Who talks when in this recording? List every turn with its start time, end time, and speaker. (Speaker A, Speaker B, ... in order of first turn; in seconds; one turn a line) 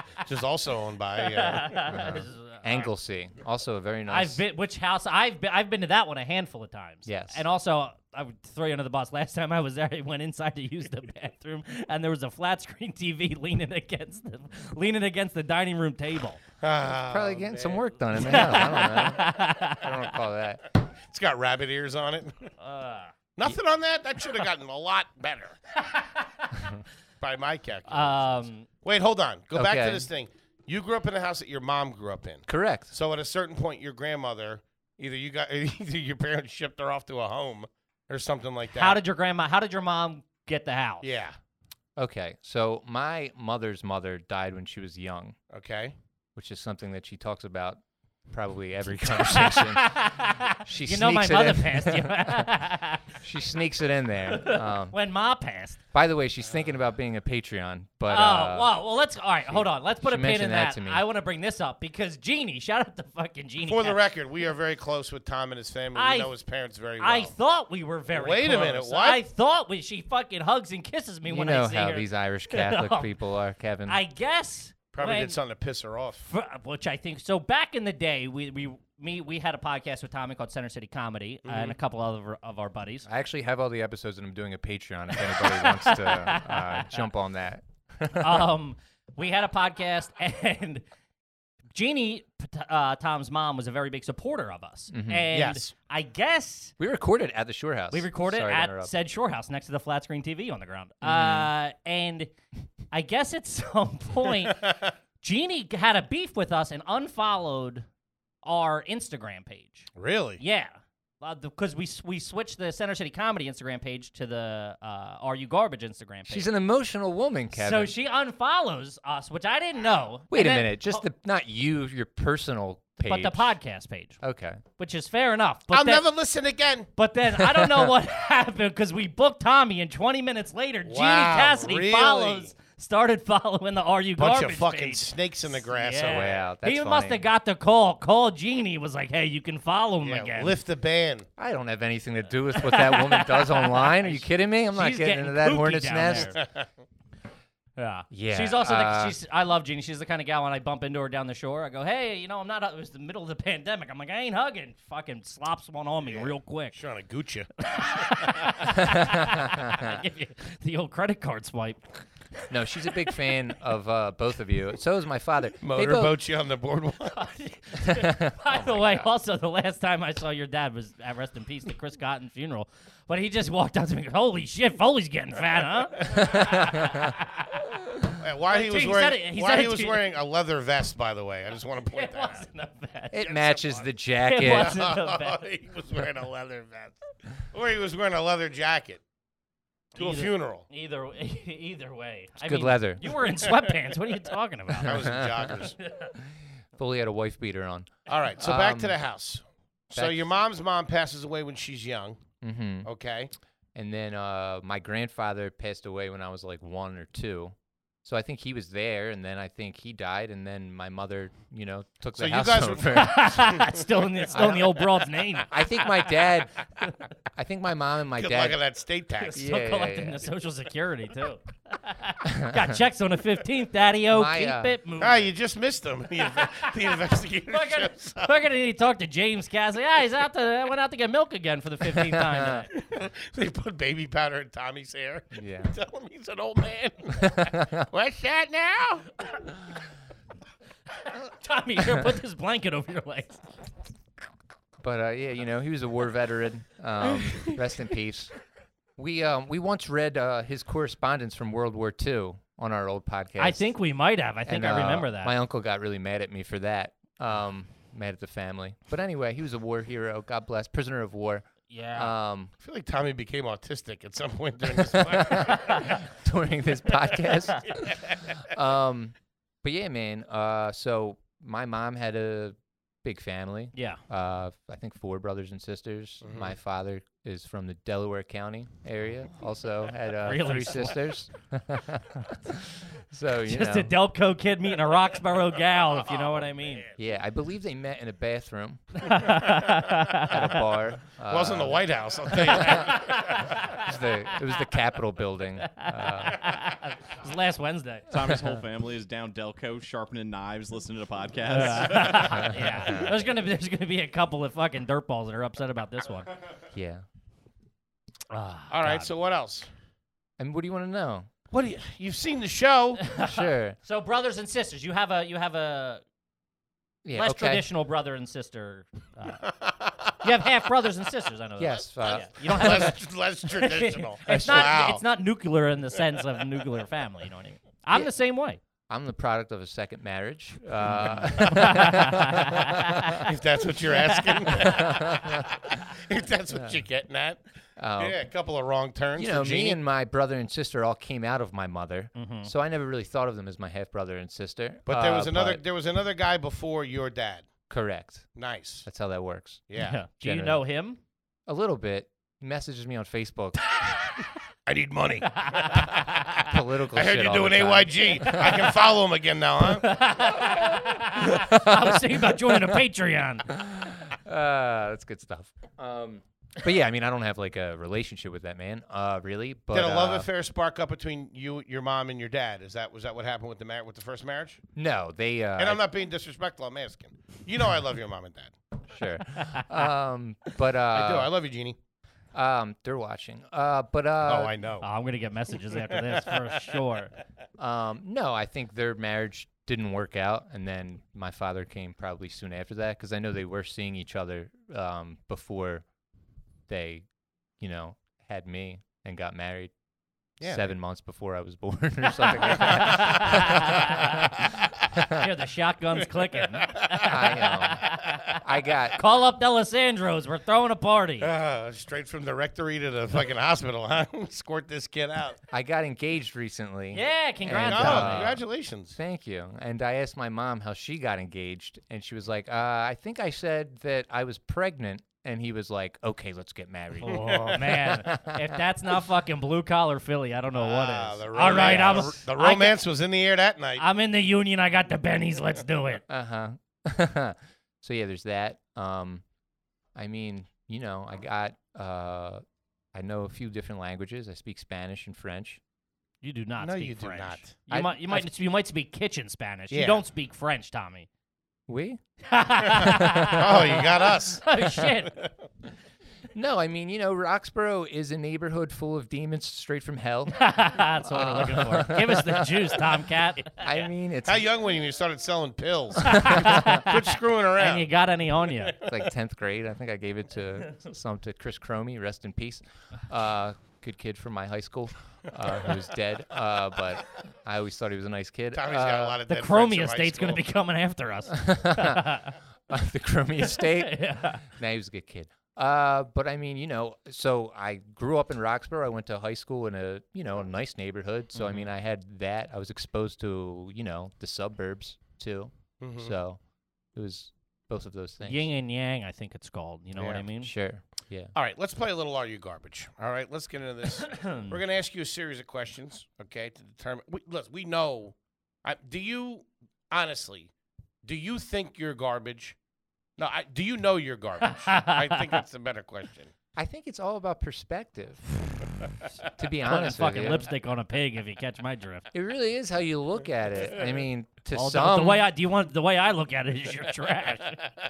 Speaker A: 0.2-2.1
Speaker B: 1.2-2.9
Speaker C: 1.9-4.4
Speaker B: 4.1-16.4
Speaker C: 7.0-7.4
Speaker A: 16.6-18.6
Speaker C: 17.1-20.6
Speaker B: 18.2-19.9
Speaker A: 21.1-22.5
Speaker B: 22.6-23.1
Speaker A: 23.4-25.6
Speaker B: 25.8-26.5
Speaker A: 27.2-39.0
Speaker B: 27.9-28.7
Speaker C: 29.5-30.1
Speaker C: 32.5-32.9
Speaker B: 38.7-41.1
Speaker A: 41.0-41.3
Speaker C: 42.0-45.4
Speaker A: 45.5-45.9
Speaker C: 46.4-52.5
Speaker B: 49.1-53.2
Speaker C: 53.2-55.0
Speaker B: 54.3-55.8
Speaker C: 55.9-58.7
Speaker B: 58.1-64.0
Speaker C: 59.5-61.0
Speaker A: 63.6-67.3
Speaker B: 66.0-66.3
Speaker B: 67.0-73.1
Speaker A: 68.1-69.2
Speaker C: 71.3-74.0
Speaker B: 73.9-75.4
Speaker A: 74.9-76.3
Speaker B: 76.3-83.1
Speaker A: 81.5-81.8
Speaker C: 83.1-88.5
Speaker B: 85.3-87.0
Speaker B: 88.2-90.8
Speaker B: 91.7-96.7
Speaker C: 94.9-95.3
Speaker A: 95.3-95.7
Speaker C: 96.8-98.9
Speaker B: 97.9-102.3
Speaker C: 101.0-101.5
Speaker B: 102.9-107.9
Speaker B: 108.4-109.9
Speaker A: 110.0-110.4
Speaker B: 110.4-116.5
Speaker C: 116.3-117.9
Speaker B: 117.5-121.1
Speaker C: 120.3-123.5
Speaker B: 123.0-124.2
Speaker C: 124.2-124.6
Speaker B: 124.8-126.0
Speaker A: 125.7-126.9
Speaker B: 127.0-140.6
Speaker C: 127.6-127.9
Speaker A: 130.9-132.5
Speaker A: 134.2-136.4
Speaker C: 136.1-137.2
Speaker A: 140.0-141.3
Speaker C: 141.4-146.4
Speaker B: 142.6-146.4
Speaker A: 146.3-146.7
Speaker B: 147.8-156.8
Speaker C: 148.1-149.2
Speaker A: 156.1-157.5
Speaker B: 157.6-162.0
Speaker C: 159.0-159.9
Speaker C: 162.5-166.1
Speaker A: 165.6-167.2
Speaker B: 167.1-177.4
Speaker C: 167.8-169.1
Speaker C: 176.2-177.1
Speaker A: 178.2-182.4
Speaker B: 178.5-180.1
Speaker B: 181.9-185.4
Speaker C: 183.1-184.8
Speaker A: 184.4-187.0
Speaker A: 187.5-189.0
Speaker A: 190.0-190.7
Speaker B: 190.0-195.1
Speaker C: 192.4-193.1
Speaker A: 194.8-195.8
Speaker C: 194.8-195.5
Speaker B: 195.8-196.2
Speaker C: 196.8-199.0
Speaker A: 198.1-202.2
Speaker C: 199.9-200.2
Speaker C: 202.4-202.9
Speaker A: 202.8-203.3
Speaker C: 203.8-213.4
Speaker A: 212.2-213.8
Speaker B: 212.9-215.6
Speaker C: 214.3-214.8
Speaker C: 215.5-216.5
Speaker C: 217.3-218.6
Speaker A: 218.2-219.4
Speaker B: 219.2-225.3
Speaker C: 219.3-220.2
Speaker C: 222.2-222.7
Speaker C: 224.1-224.8
Speaker A: 225.0-228.3
Speaker B: 226.4-226.7
Speaker B: 227.5-232.7
Speaker C: 232.0-232.7
Speaker A: 232.7-239.2
Speaker C: 235.3-235.7
Speaker C: 237.2-237.9
Speaker B: 241.0-243.4
Speaker C: 244.8-248.3
Speaker C: 249.0-253.7
Speaker B: 253.4-255.3
Speaker C: 254.5-262.5
Speaker B: 261.7-262.1
Speaker A: 262.6-266.0
Speaker C: 264.8-283.9
Speaker A: 267.9-268.2
Speaker B: 273.8-274.0
Speaker A: 276.2-276.5
Speaker B: 280.2-281.0
Speaker B: 283.4-286.9
Speaker C: 287.0-289.2
Speaker B: 289.0-290.6
Speaker C: 290.1-296.4
Speaker A: 291.3-293.6
Speaker B: 292.6-293.9
Speaker B: 295.6-298.1
Speaker D: 298.1-302.6
Speaker B: 301.5-306.3
Speaker C: 302.3-303.1
Speaker C: 306.7-307.0
Speaker B: 308.3-309.1
Speaker A: 308.7-309.7
Speaker C: 310.4-311.3
Speaker A: 311.5-313.0
Speaker B: 313.0-316.0
Speaker C: 313.2-313.8
Speaker C: 317.1-317.6
Speaker B: 317.1-319.5
Speaker A: 319.5-320.1
Speaker B: 320.2-323.0
Speaker C: 321.6-322.9
Speaker A: 322.1-325.0
Speaker B: 323.5-328.6
Speaker C: 324.3-324.7
Speaker C: 328.9-333.2
Speaker B: 331.2-333.3
Speaker A: 333.2-337.4
Speaker B: 334.0-334.5
Speaker C: 334.6-335.4
Speaker C: 337.8-338.2
Speaker A: 338.0-339.8
Speaker C: 339.2-345.6
Speaker B: 342.1-342.5
Speaker A: 344.9-347.5
Speaker C: 347.7-348.3
Speaker A: 348.4-348.9
Speaker C: 348.9-350.6
Speaker A: 349.7-350.0
Speaker B: 349.8-351.0
Speaker C: 351.5-353.6
Speaker A: 354.7-360.1
Speaker B: 355.4-355.9
Speaker C: 356.5-358.6
Speaker B: 358.2-358.7
Speaker B: 359.7-363.5
Speaker C: 361.4-362.6
Speaker C: 363.5-370.3
Speaker A: 369.7-374.6
Speaker C: 374.8-375.8
Speaker A: 375.6-378.5
Speaker C: 378.9-381.3
Speaker B: 379.3-379.7
Speaker A: 380.9-381.8
Speaker C: 382.3-384.5
Speaker A: 384.2-384.9
Speaker B: 384.8-387.1
Speaker A: 385.9-386.4
Speaker C: 387.6-395.9
Speaker C: 396.7-397.1
Speaker C: 397.6-399.7
Speaker A: 400.4-400.7
Speaker C: 400.4-405.2
Speaker B: 402.5-404.3
Speaker B: 405.1-408.4
Speaker A: 406.5-407.0
Speaker C: 407.0-409.0
Speaker B: 408.9-411.3
Speaker A: 411.2-415.4
Speaker C: 415.5-418.4
Speaker B: 416.9-418.3
Speaker A: 417.6-419.0
Speaker C: 419.0-428.6
Speaker B: 427.0-432.8
Speaker A: 427.1-427.6
Speaker A: 430.6-433.8
Speaker C: 431.4-432.1
Speaker B: 433.8-436.0
Speaker C: 436.1-439.2
Speaker C: 439.9-442.4
Speaker C: 442.9-445.6
Speaker B: 446.2-451.1
Speaker A: 446.6-447.6
Speaker C: 447.7-448.3
Speaker A: 449.7-450.1
Speaker C: 451.7-452.0
Speaker B: 452.3-455.1
Speaker C: 452.7-453.9
Speaker A: 453.3-454.5
Speaker C: 456.3-460.4
Speaker B: 460.3-463.8
Speaker C: 461.0-462.9
Speaker C: 463.6-464.4
Speaker A: 464.2-467.9
Speaker B: 466.0-468.8
Speaker C: 466.1-466.6
Speaker C: 468.8-479.2
Speaker A: 478.5-480.5
Speaker B: 479.3-482.4
Speaker C: 481.3-496.4
Speaker B: 483.4-484.4
Speaker A: 495.8-496.1
Speaker C: 496.9-498.5
Speaker B: 498.2-500.5
Speaker C: 500.3-501.3
Speaker A: 501.4-510.5
Speaker B: 504.0-504.6
Speaker A: 511.0-512.6
Speaker A: 513.2-516.3
Speaker B: 514.5-515.3
Speaker C: 516.6-518.3
Speaker C: 519.4-520.5
Speaker B: 519.6-522.1
Speaker C: 522.1-525.3
Speaker B: 524.5-527.6